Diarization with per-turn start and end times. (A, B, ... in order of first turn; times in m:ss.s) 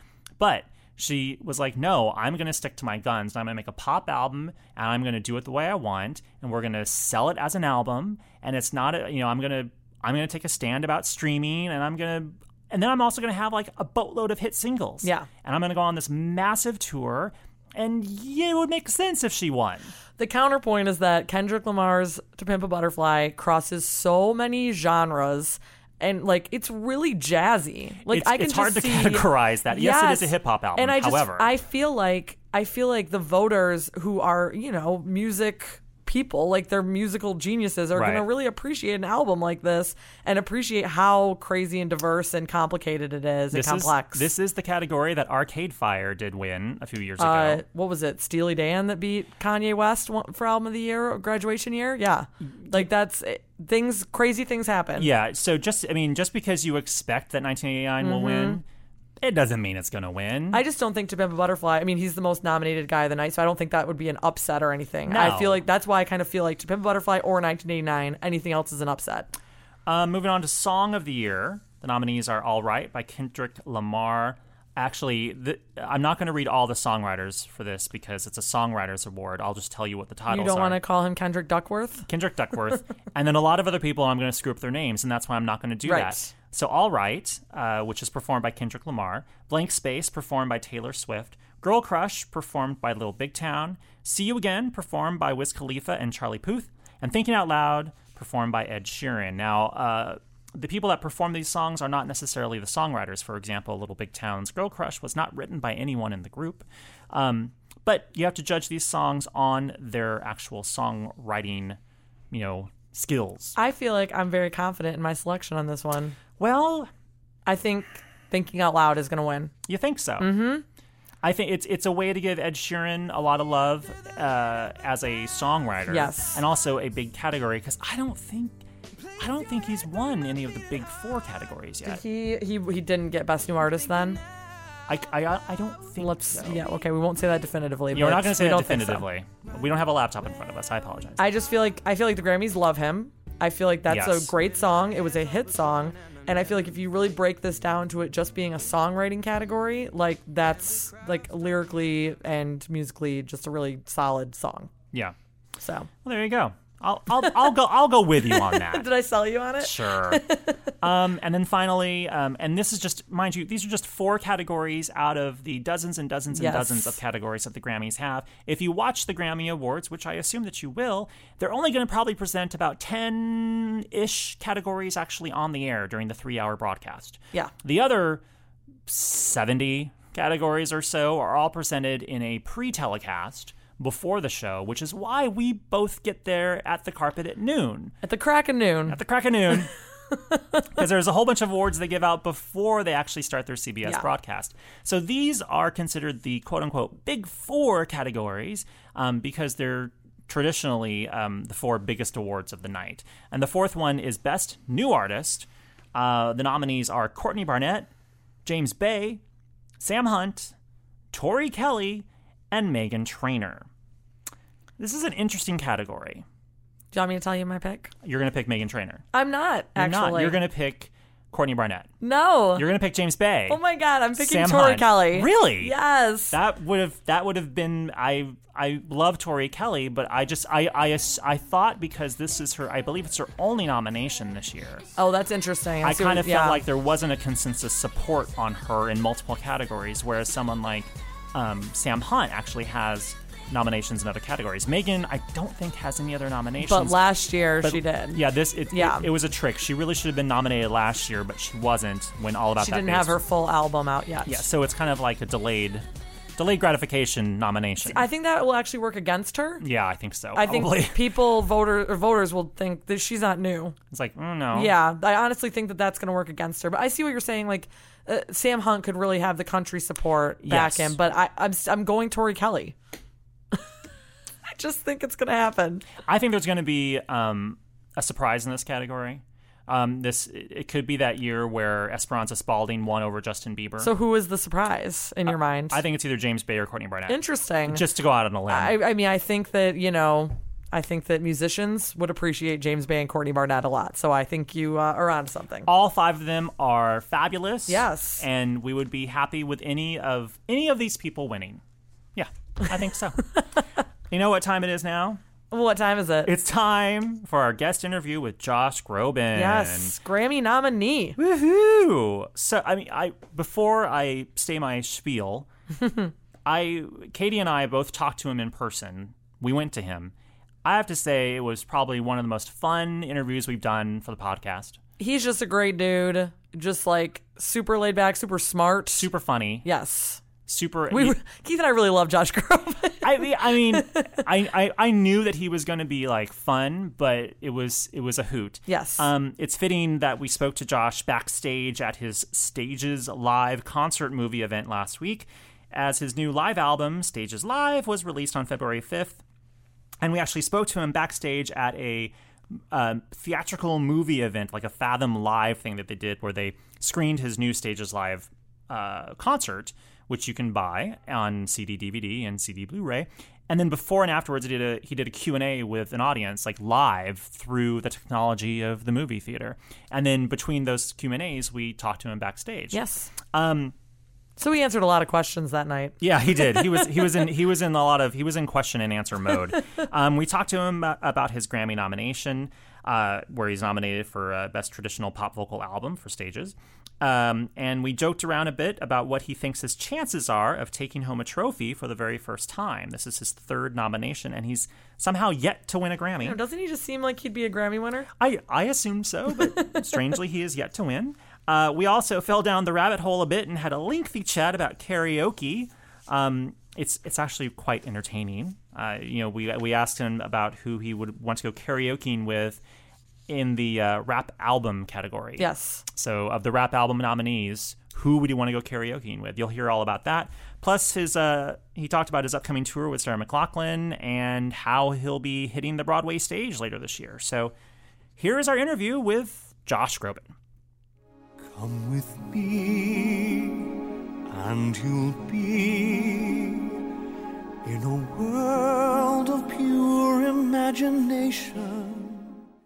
0:00.4-0:19.9 A
0:20.2-0:44.3 B
0:28.0-0:31.5 A
0:38.0-0:38.2 A
0:43.5-0:47.6 A
0:47.2-0:55.1 B
0:55.0-0:58.6 A
0:58.0-0:58.6 B
0:59.2-1:00.6 A
1:00.5-1:09.3 B
1:05.1-1:05.6 A
1:09.9-1:20.8 A
1:20.3-1:22.0 B
1:22.1-1:51.8 A
1:25.8-1:26.3 B
1:52.3-1:53.6 A
1:53.6-1:56.2 B
1:56.4-1:56.9 A
1:57.5-1:59.5 B
1:59.7-2:00.3 A
2:00.2-2:00.6 B
2:01.2-2:08.6 A
2:05.9-2:06.4 B
2:09.2-2:12.0 A
2:11.8-2:14.2 B
2:14.9-2:16.6 A
2:16.0-2:19.0 B
2:17.9-2:21.2 A
2:21.2-2:34.7 B
2:23.9-2:24.3 A
2:35.6-2:35.9 B
2:36.0-2:38.9 A
2:38.3-2:40.6 B
2:39.6-2:40.2 A
2:40.8-2:58.2 A
2:46.3-2:47.0 B
2:58.9-3:08.0 A
3:08.0-3:09.0 B
3:08.9-3:09.7 A
3:10.7-3:27.9 A
3:28.4-3:29.2 A
3:29.8-3:30.5 A
3:31.1-3:33.7 A
3:34.8-3:36.2 A
3:36.9-3:37.9 B
3:38.0-3:39.0 A
3:39.1-3:40.4 B
3:39.8-3:41.9 A
3:42.0-3:42.7 B
3:42.5-3:43.6 A
3:43.5-3:46.4 B
3:44.2-3:45.8 A
3:46.3-3:54.9 A
3:55.0-3:56.6 B
3:55.8-4:07.0 A
4:06.6-4:08.2 B
4:07.6-4:13.2 A
4:08.7-4:09.1 B
4:12.6-4:14.4 B
4:14.2-4:15.8 A
4:16.4-4:18.0 A
4:17.9-4:19.6 B
4:19.6-4:21.2 A
4:20.3-4:23.8 B
4:23.9-4:24.7 A
4:24.5-4:32.8 B
4:30.4-4:31.0 A
4:34.5-4:35.9 B
4:36.0-4:43.9 A
4:43.8-4:45.8 B
4:45.3-4:48.8 A
4:47.1-4:47.8 B
4:48.5-4:55.7 B
4:55.7-5:01.6 A
4:57.7-4:58.2 B
5:02.2-5:03.4 A
5:04.1-5:05.2 A
5:05.5-5:06.3 B
5:06.2-5:10.0 A
5:09.3-5:11.2 B
5:11.2-5:15.5 A
5:15.8-5:16.1 B
5:16.5-5:20.1 A
5:20.6-5:24.8 A
5:25.0-5:29.0 B
5:29.0-5:29.7 A
5:29.6-5:30.2 B
5:30.5-5:31.2 A
5:30.9-5:34.2 B
5:33.0-5:49.2 A
5:38.7-5:39.1 B
5:50.0-5:52.1 A
5:52.7-6:12.8 A
6:12.7-6:13.1 B
6:13.3-6:13.7 A
6:14.4-6:16.0 B
6:16.0-6:36.4 A
6:36.2-6:38.1 B
6:38.2-6:52.6 A
6:53.3-7:07.5 A
6:55.4-6:55.8 B
7:08.2-7:10.3 A
7:11.5-7:13.7 C
7:14.3-7:16.8 C
7:17.6-7:22.3 C